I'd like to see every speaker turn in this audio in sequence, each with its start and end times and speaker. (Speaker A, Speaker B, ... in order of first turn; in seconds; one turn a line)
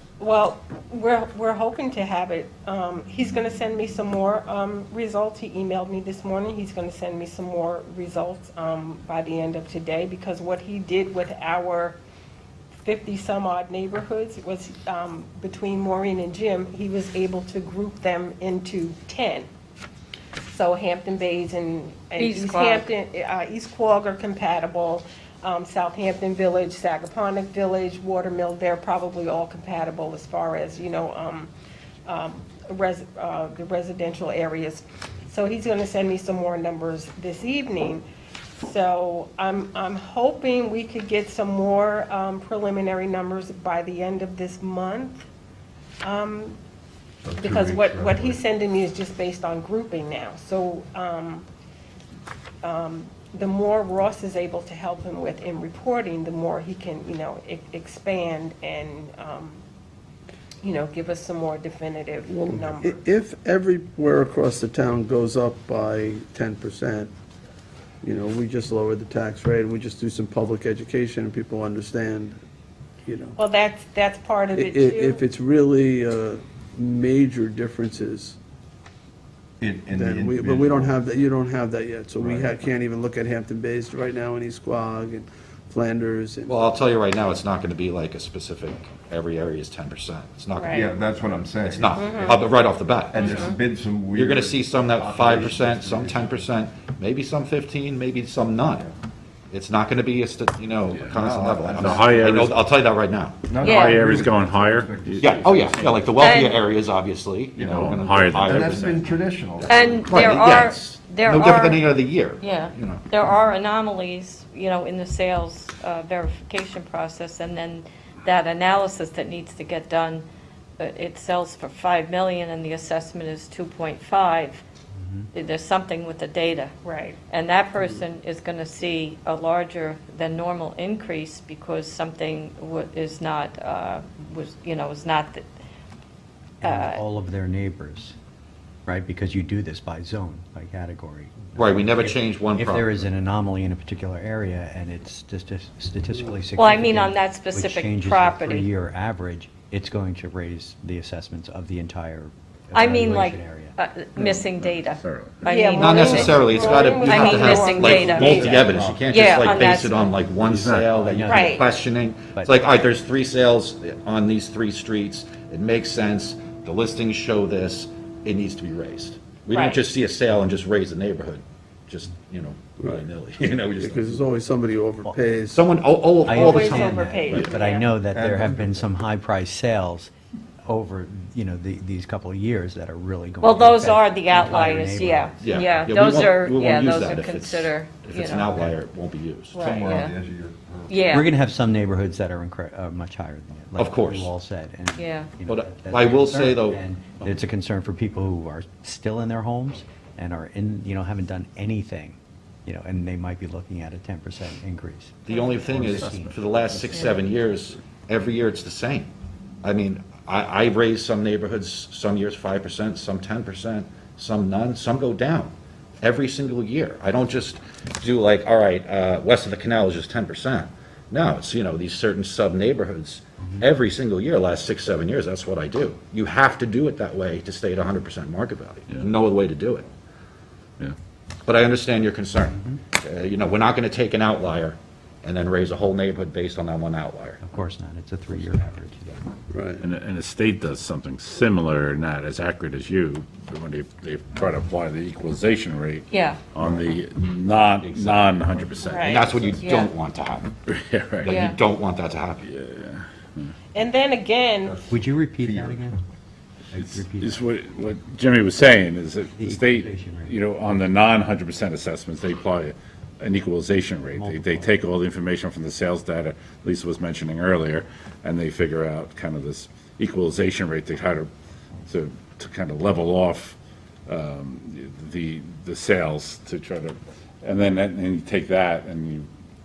Speaker A: 0.2-12.0
Speaker A: 12.8-19.5
Speaker A: 20.4-31.5
Speaker B: 22.2-22.9
Speaker A: 32.0-38.0
Speaker A: 38.6-45.3
Speaker A: 46.0-46.6
Speaker C: 47.2-48.4
Speaker A: 47.4-51.5
Speaker A: 52.6-59.6
Speaker A: 60.6-63.0
Speaker D: 62.3-67.1
Speaker D: 68.0-72.4
Speaker D: 73.0-73.4
Speaker A: 73.4-75.2
Speaker D: 74.5-78.4
Speaker C: 79.6-81.0
Speaker D: 79.9-86.6
Speaker C: 82.2-82.6
Speaker E: 86.5-93.5
Speaker A: 90.5-90.9
Speaker C: 90.7-92.5
Speaker A: 92.0-92.3
Speaker C: 93.1-96.5
Speaker A: 93.2-93.6
Speaker E: 94.1-98.9
Speaker E: 99.5-103.5
Speaker F: 101.0-101.2
Speaker C: 101.1-102.4
Speaker F: 101.8-102.6
Speaker C: 103.5-106.3
Speaker F: 103.6-105.5
Speaker B: 103.6-104.0
Speaker E: 105.2-113.1
Speaker B: 106.2-106.6
Speaker C: 107.6-110.0
Speaker F: 107.6-109.0
Speaker B: 109.7-111.9
Speaker B: 112.4-120.2
Speaker B: 120.8-124.6
Speaker G: 125.0-125.3
Speaker B: 125.3-126.7
Speaker A: 126.8-127.2
Speaker B: 127.3-135.4
Speaker B: 136.6-137.0
Speaker G: 136.6-138.1
Speaker G: 138.8-153.8
Speaker E: 141.6-143.0
Speaker B: 146.6-148.7
Speaker B: 152.7-158.4
Speaker F: 154.3-155.4
Speaker A: 155.4-158.6
Speaker E: 155.7-174.2
Speaker G: 156.1-156.5
Speaker C: 157.8-159.5
Speaker B: 159.1-160.2
Speaker G: 160.4-162.5
Speaker C: 160.6-161.0
Speaker A: 161.2-161.6
Speaker A: 169.5-169.8
Speaker D: 172.8-175.6
Speaker E: 175.5-177.5
Speaker G: 176.2-180.1
Speaker A: 176.3-177.9
Speaker C: 178.0-178.9
Speaker G: 180.6-185.6
Speaker B: 183.4-188.5
Speaker E: 185.4-189.9
Speaker G: 188.4-188.8
Speaker B: 189.5-190.1
Speaker C: 189.5-191.1
Speaker B: 190.9-191.3
Speaker G: 191.1-206.9
Speaker E: 193.8-194.3
Speaker B: 194.9-195.3
Speaker E: 195.5-196.8
Speaker E: 205.2-209.1
Speaker E: 209.6-229.9
Speaker E: 231.4-237.4
Speaker G: 237.4-239.2
Speaker D: 239.5-239.8
Speaker F: 239.8-249.6
Speaker B: 246.1-246.4
Speaker C: 246.6-246.9
Speaker E: 247.8-248.4
Speaker A: 248.8-249.2
Speaker E: 249.0-250.6
Speaker B: 249.6-249.9
Speaker F: 250.7-251.4
Speaker E: 251.2-252.4
Speaker B: 251.2-251.6
Speaker F: 252.4-253.5
Speaker A: 253.7-254.8
Speaker C: 254.7-255.8
Speaker G: 254.9-256.0
Speaker G: 256.7-257.4
Speaker F: 256.8-271.3
Speaker G: 259.3-260.4
Speaker G: 264.1-264.8
Speaker F: 271.9-279.3